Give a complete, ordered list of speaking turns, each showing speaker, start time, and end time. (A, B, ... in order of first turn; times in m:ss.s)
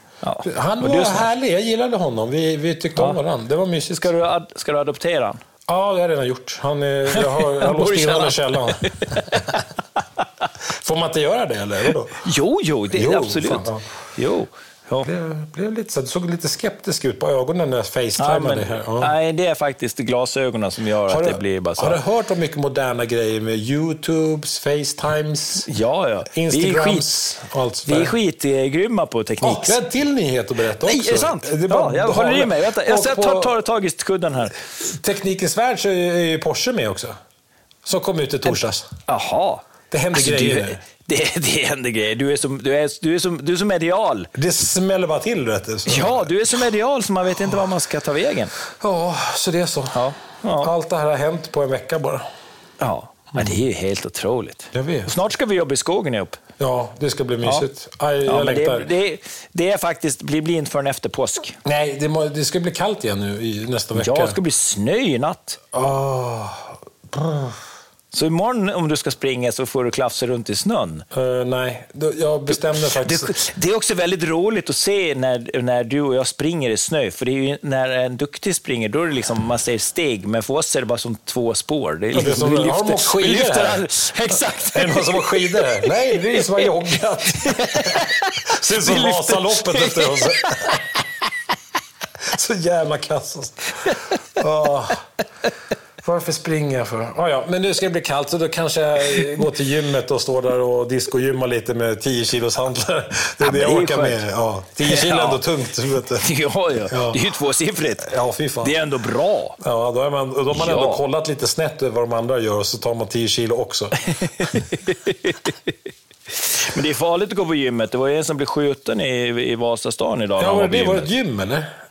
0:00.2-0:01.3 A
0:00.4-0:04.1 B
0:04.0-0:05.4 A
0:05.7-0:09.6 B
0:07.1-0:09.6 A
0:10.8-0:12.2 B
0:12.2-0:15.1 A
0:12.9-0:13.8 B
0:15.0-0:19.1 B
0:18.2-0:22.0 A
0:21.1-0:25.7 B
0:25.6-0:27.1 A
0:26.3-0:28.1 B
0:27.8-0:29.8 A
0:29.4-0:33.5 B
0:30.8-0:34.6 A
0:34.8-0:37.2 B
0:37.8-0:38.9 B
0:39.1-0:44.3 A
0:39.9-0:40.8 B
0:44.3-0:46.3 B
0:45.8-0:48.5 A
0:48.8-0:50.0 B
0:49.9-0:50.7 A
0:50.6-0:52.2 B
0:52.8-0:56.4 A
0:54.7-0:55.1 B
0:56.6-0:58.9 B
0:58.2-1:01.6 A
1:01.6-1:04.4 B
1:03.9-1:05.6 A
1:05.7-1:07.6 B
1:08.1-1:11.0 A
1:11.1-1:13.3 B
1:12.7-1:26.7 A
1:22.1-1:30.8 B
1:27.3-1:30.8 A
1:32.2-1:35.0 B
1:33.9-1:34.1 A
1:36.0-1:46.2 B
1:43.4-1:44.2 A
1:44.8-1:45.4 A
1:46.2-1:49.6 A
1:46.9-1:47.2 B
1:48.0-1:48.8 B
1:49.6-1:54.0 B
1:50.5-1:51.0 A
1:54.2-1:55.7 A
1:56.3-2:01.1 A
2:00.4-2:01.7 B